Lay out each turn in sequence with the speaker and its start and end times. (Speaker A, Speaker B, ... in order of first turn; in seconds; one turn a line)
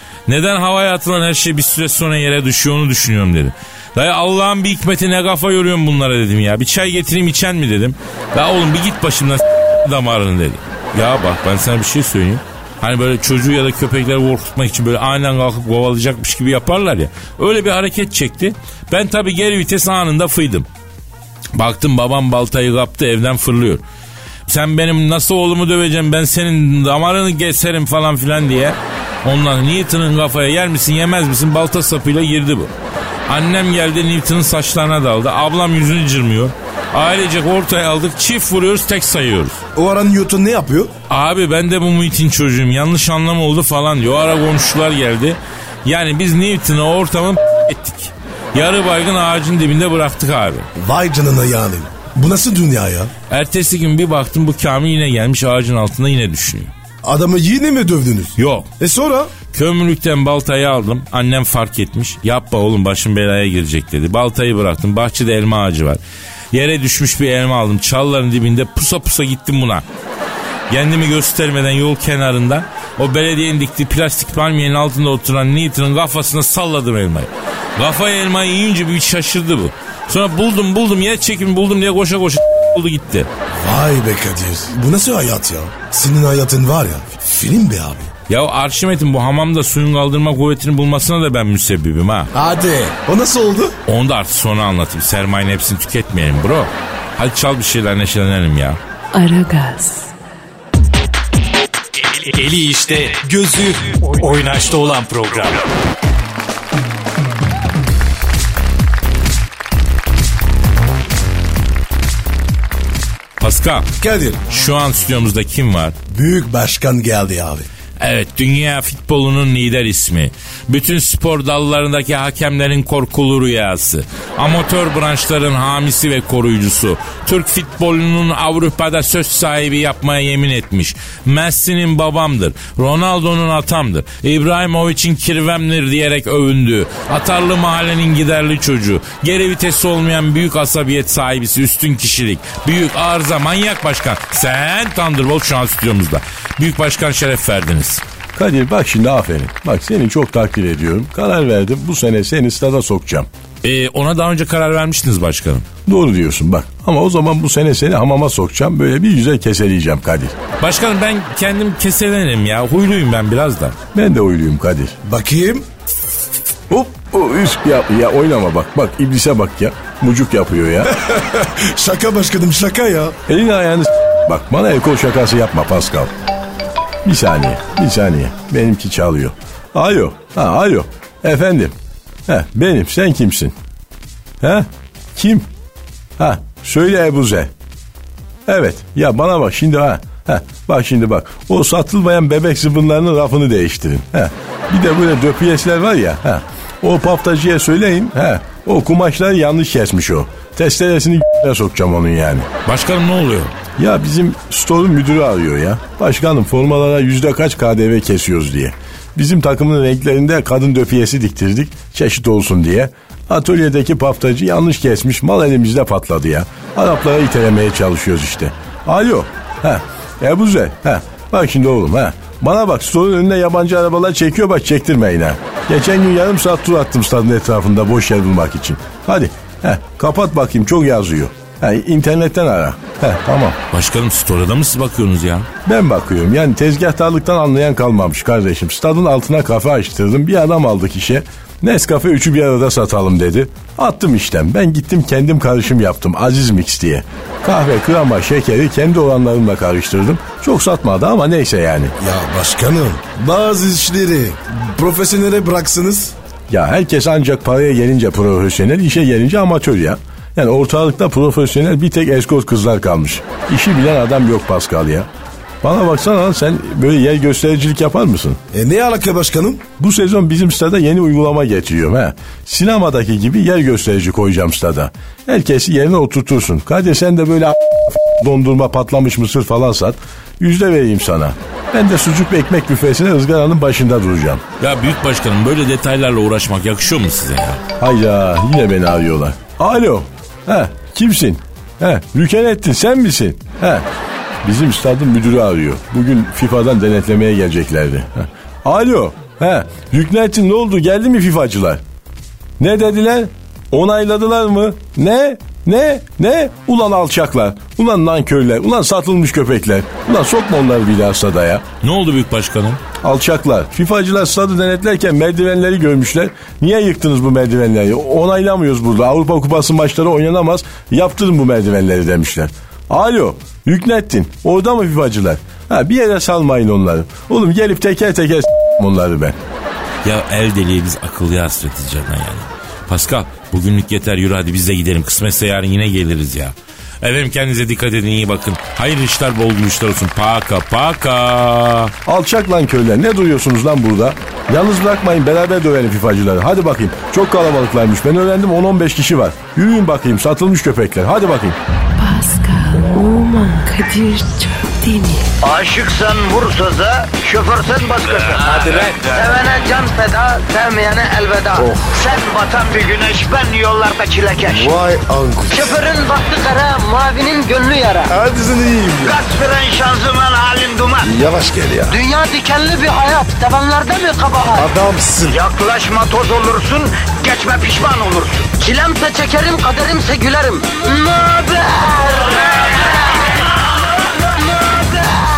Speaker A: 0.3-20.6
Speaker A: 21.5-23.8
Speaker A: 24.5-32.7
Speaker A: 33.3-39.6
Speaker B: 39.7-40.9
Speaker A: 41.1-50.7
Speaker B: 50.8-53.1
Speaker A: 53.3-56.7
Speaker B: 57.0-59.3
Speaker A: 58.4-58.7
Speaker A: 59.5-66.0
Speaker A: 66.5-69.8
Speaker A: 70.7-83.3
Speaker B: 83.5-88.1
Speaker A: 88.3-92.3
Speaker B: 92.3-93.8
Speaker A: 93.8-98.8
Speaker C: 99.1-100.1
Speaker D: 102.2-105.6
Speaker A: 113.4-113.9
Speaker B: 114.0-114.5
Speaker A: 114.5-115.9
Speaker B: 116.1-117.7
Speaker A: 118.0-148.0
Speaker E: 148.3-153.3
Speaker A: 153.6-155.7
Speaker E: 155.8-160.3
Speaker A: 160.6-163.8
Speaker E: 163.9-164.9
Speaker B: 165.0-165.7
Speaker E: 166.7-170.9
Speaker B: 170.9-173.2
Speaker E: 173.3-176.1
Speaker E: 177.0-181.7
Speaker E: 182.3-183.5
Speaker E: 184.4-185.5
Speaker E: 186.2-187.5
Speaker E: 188.5-202.5
Speaker A: 202.6-203.5
Speaker E: 203.8-233.6
Speaker A: 233.7-235.5
Speaker E: 235.6-251.9
Speaker B: 252.0-256.1
Speaker E: 256.5-265.1
Speaker E: 265.6-268.4
Speaker B: 268.5-269.6
Speaker E: 269.8-284.4
Speaker A: 284.6-287.6
Speaker E: 287.8-293.9
Speaker E: 294.4-301.8
Speaker E: 302.6-311.6
Speaker A: 311.8-312.8
Speaker E: 313.0-329.4
Speaker A: 330.0-341.9
Speaker E: 342.1-351.6
Speaker C: 352.0-355.3
Speaker F: 355.4-364.7
Speaker D: 358.5-359.3
Speaker B: 364.5-365.7
Speaker F: 365.5-368.1
Speaker B: 368.1-369.2
Speaker F: 369.0-371.1
Speaker B: 371.0-372.0
Speaker F: 371.9-374.7
Speaker B: 374.6-375.4
Speaker F: 375.3-382.9
Speaker F: 384.5-385.2